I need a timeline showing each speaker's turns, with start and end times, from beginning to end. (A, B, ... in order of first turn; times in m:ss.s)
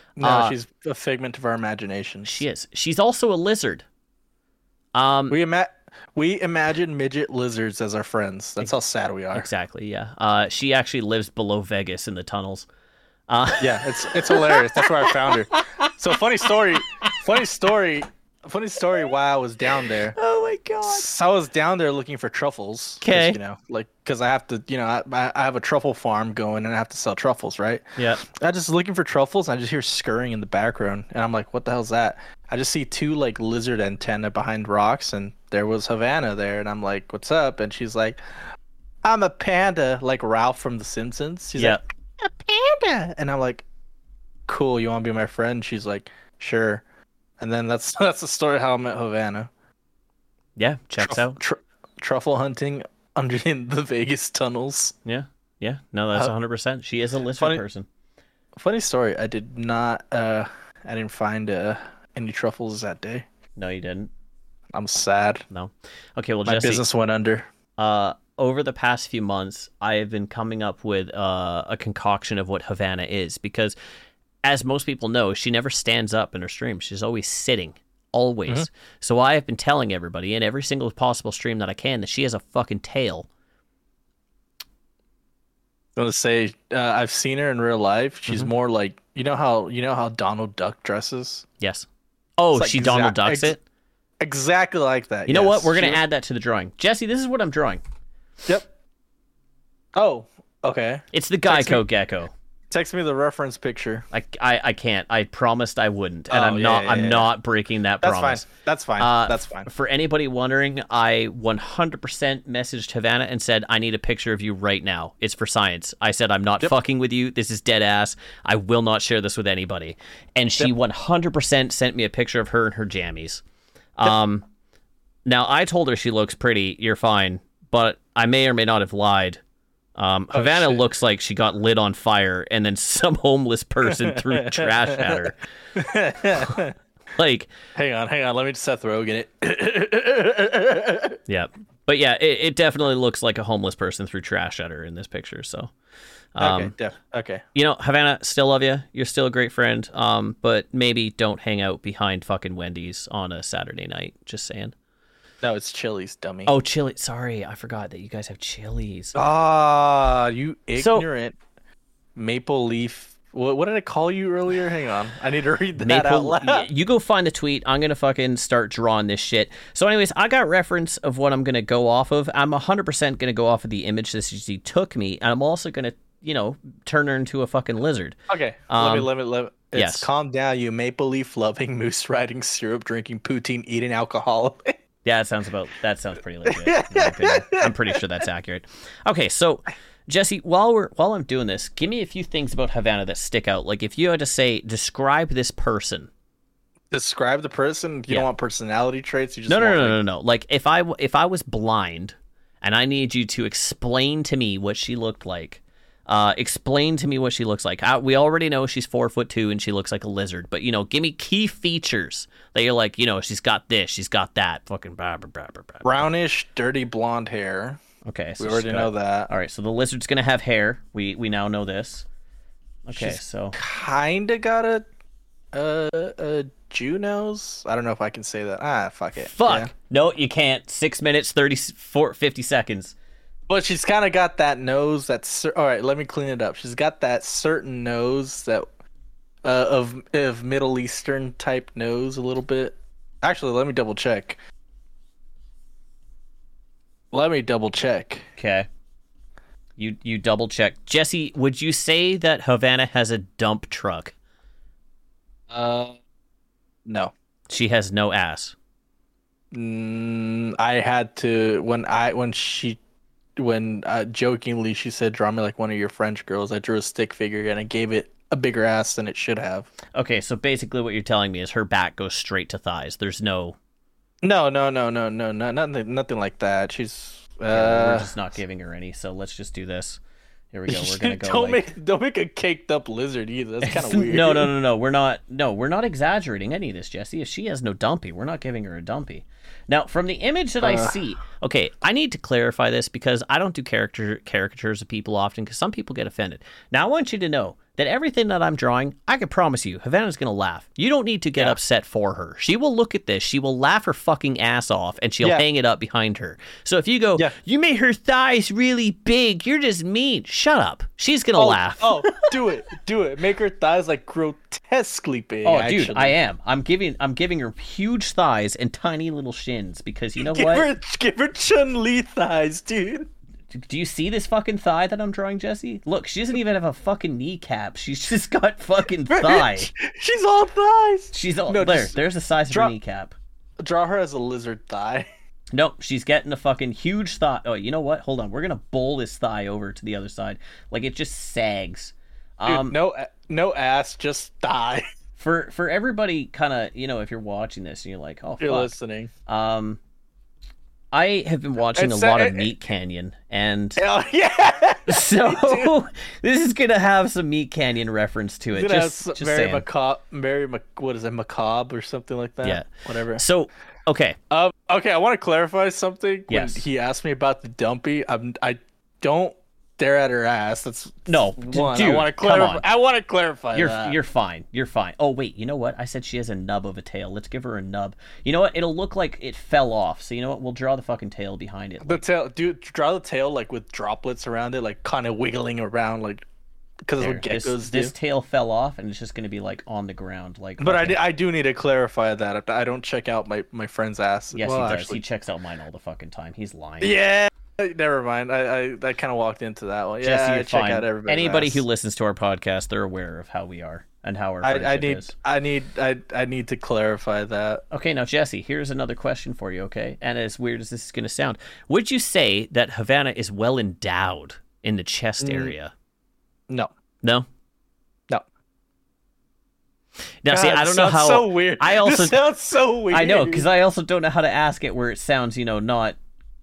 0:00.2-0:02.4 A
0:00.2-0:00.5 B
0:02.2-0:03.8 B
0:04.9-0:05.4 B
0:05.3-0:09.5 A
0:09.3-0:12.7 B
0:13.3-0:15.9 B
0:13.6-0:20.2 A
0:20.1-0:21.0 B
0:20.8-0:38.2 A
0:23.0-0:23.4 B
0:28.0-0:28.2 B
0:39.0-0:43.6 A
0:41.6-0:41.8 B
0:44.5-0:46.8 A
0:47.4-0:49.5 A
0:50.6-0:51.4 B
0:51.0-0:54.9 A
0:55.0-0:57.9 B
0:57.4-0:57.6 A
0:58.6-1:03.2 A
1:03.6-1:04.1 B
1:04.7-1:05.4 A
1:05.5-1:06.8 B
1:06.4-1:07.5 A
1:07.8-1:13.8 B
1:14.4-1:23.3 B
1:26.0-1:31.5 A
1:31.6-1:31.9 B
1:32.4-1:33.6 B
1:32.5-1:33.6 A
1:34.2-1:36.0 A
1:35.3-1:37.8 B
1:39.9-1:41.8 A
1:41.1-1:42.3 B
1:42.7-1:44.1 A
1:44.1-1:48.5 B
1:46.3-1:47.3 A
1:48.0-1:49.7 A
1:49.0-2:03.4 B
2:04.0-2:04.5 B
2:05.2-2:09.4 B
2:10.0-2:15.4 B
2:10.3-2:10.8 A
2:13.9-2:15.2 A
2:15.7-2:16.7 A
2:17.2-2:17.5 B
2:17.7-2:21.2 A
2:21.3-2:25.7 B
2:26.3-2:26.7 B
2:26.4-2:27.4 A
2:27.5-2:34.7 B
2:35.4-2:36.5 A
2:36.4-2:39.2 B
2:39.1-2:41.4 A
2:40.8-2:41.1 B
2:42.2-2:46.7 A
2:45.8-2:58.2 B
2:58.3-3:04.7 A
2:58.7-2:59.1 B
2:59.7-3:00.1 B
3:05.0-3:16.1 B
3:06.4-3:08.0 A
3:16.9-3:20.0 A
3:19.5-3:36.0 B
3:35.8-3:37.8 A
3:38.0-3:42.0 B
3:38.4-3:39.3 A
3:42.8-3:43.6 B
3:42.9-3:44.8 A
3:45.5-3:49.7 A
3:49.2-3:53.0 B
3:53.5-3:58.7 A
3:59.4-4:04.4 A
4:07.1-4:08.3 A
4:08.4-4:08.7 B
4:09.8-4:14.1 B
4:15.5-4:16.0 A
4:16.8-4:17.1 A
4:17.5-4:18.5 B
4:19.5-4:22.8 A
4:23.4-4:29.7 A
4:29.9-4:33.6 B
4:34.2-4:38.1 A
4:37.5-4:40.0 B
4:40.5-4:41.7 B
4:40.7-4:44.5 A
4:43.6-5:12.3 B
4:50.6-4:51.0 A
5:11.4-5:16.2 A
5:15.4-5:20.7 B
5:20.2-5:23.1 A
5:23.5-5:29.7 B
5:29.1-5:32.0 A
5:31.1-5:33.1 B
5:32.5-5:32.7 A
5:33.6-5:35.1 A
5:35.5-5:42.8 B
5:42.4-5:44.8 A
5:45.2-5:48.7 B
5:48.4-5:49.1 A
5:49.3-5:49.8 B
5:50.9-5:53.8 B
5:51.7-5:52.5 A
5:53.8-5:55.7 A
5:54.9-5:59.6 B
5:58.5-6:03.2 A
6:02.4-6:04.2 B
6:04.3-6:14.0 A
6:06.3-6:06.6 B
6:11.1-6:12.6 B
6:13.5-6:22.0 B
6:21.8-6:26.2 A
6:26.9-6:27.9 A
6:27.0-6:31.0 B
6:30.6-6:35.0 A
6:34.3-6:37.0 B
6:36.8-6:41.6 A
6:40.0-6:45.1 B
6:44.4-6:47.6 A
6:47.7-6:55.7 B
6:55.2-6:55.5 A
7:00.2-7:02.2 B
7:00.3-7:03.5 A
7:02.9-7:06.0 B